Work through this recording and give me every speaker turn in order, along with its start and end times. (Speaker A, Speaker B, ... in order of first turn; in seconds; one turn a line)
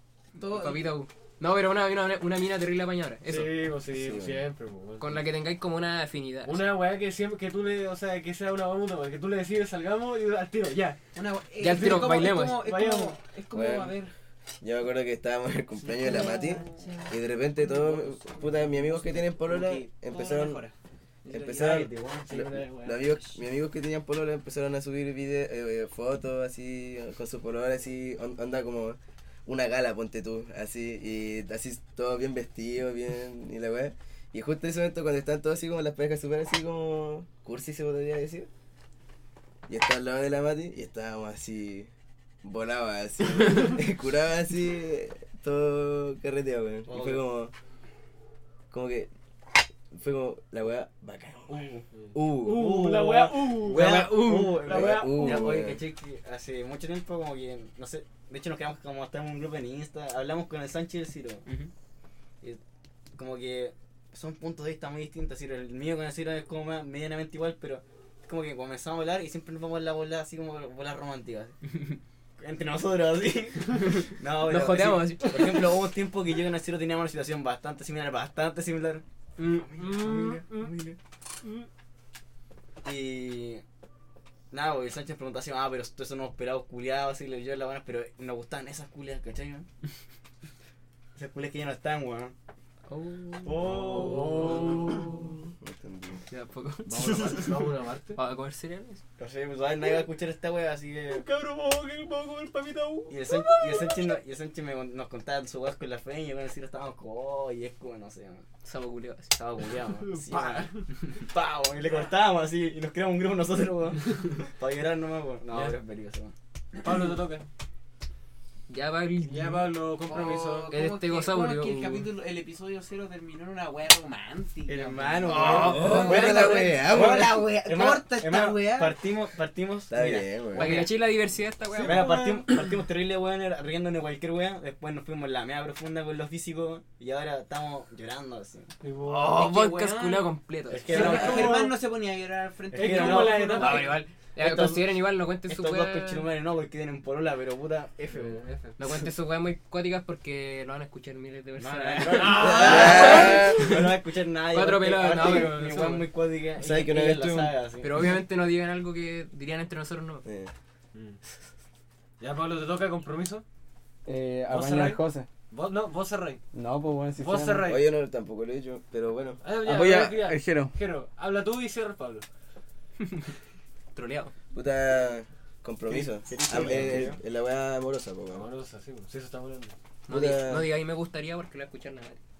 Speaker A: 0.3-1.0
Speaker B: 0.4-3.6
Speaker C: 3.3-5.1
Speaker D: 3.9-4.4
Speaker B: 5.0-6.7
Speaker C: 6.4-11.0
Speaker A: 11.1-14.1
Speaker B: 11.6-12.6
Speaker C: 11.7-13.2
Speaker D: 13.5-13.9
Speaker D: 14.6-20.6
Speaker A: 15.9-20.7
Speaker E: 21.3-22.6
Speaker D: 21.3-38.5
Speaker C: 22.2-23.2
Speaker D: 39.7-41.9
Speaker D: 42.4-47.5
Speaker E: 46.9-47.2
Speaker D: 48.7-49.1
Speaker D: 49.9-52.9
Speaker E: 51.5-51.9
Speaker C: 52.0-55.6
Speaker E: 52.5-61.4
Speaker B: 53.5-54.7
Speaker D: 54.7-55.8
Speaker E: 63.1-71.6
Speaker E: 72.4-81.0
Speaker B: 74.4-75.7
Speaker C: 79.7-80.7
Speaker C: 81.4-81.7
Speaker E: 82.8-83.6
Speaker E: 84.5-89.7
Speaker E: 91.2-92.3
Speaker B: 92.9-95.2
Speaker E: 93.4-94.7
Speaker C: 93.6-95.2
Speaker D: 95.6-96.2
Speaker B: 96.3-99.0
Speaker C: 96.9-98.2
Speaker E: 96.9-97.2
Speaker E: 99.2-101.2
Speaker C: 101.1-104.1
Speaker E: 103.1-108.4
Speaker B: 108.6-109.3
Speaker E: 109.3-116.3
Speaker C: 110.0-110.9
Speaker C: 115.5-115.8
Speaker C: 116.8-117.5
Speaker B: 118.7-119.7
Speaker C: 119.2-120.7
Speaker A: 120.0-128.9
Speaker B: 120.2-122.1
Speaker E: 124.7-130.9
Speaker C: 125.2-126.0
Speaker B: 125.3-126.1
Speaker D: 125.4-127.5
Speaker D: 129.9-130.7
Speaker B: 130.5-132.3
Speaker C: 131.8-132.5
Speaker E: 131.8-138.7
Speaker C: 138.8-139.4
Speaker B: 139.1-141.5
Speaker A: 139.3-140.3
Speaker E: 140.7-141.6
Speaker A: 140.8-144.0
Speaker C: 140.9-141.8
Speaker C: 142.7-143.9
Speaker E: 142.7-143.8
Speaker B: 143.6-146.3
Speaker E: 144.3-148.4
Speaker C: 148.1-148.8
Speaker B: 148.8-153.9
Speaker E: 151.6-157.9
Speaker D: 152.4-153.6
Speaker C: 152.6-153.1
Speaker B: 154.5-156.1
Speaker D: 156.6-157.5
Speaker B: 157.8-160.2
Speaker D: 160.2-160.5
Speaker C: 160.9-161.2
Speaker C: 162.2-163.4
Speaker F: 164.1-165.3
Speaker C: 164.5-166.4
Speaker F: 166.5-167.7
Speaker C: 167.2-167.8
Speaker D: 167.6-169.4
Speaker C: 169.4-172.2
Speaker F: 169.6-170.7
Speaker B: 173.9-174.3
Speaker D: 174.5-178.5
Speaker C: 175.9-177.2
Speaker E: 176.3-177.2
Speaker C: 178.3-179.8
Speaker B: 180.1-182.2
Speaker D: 180.1-180.7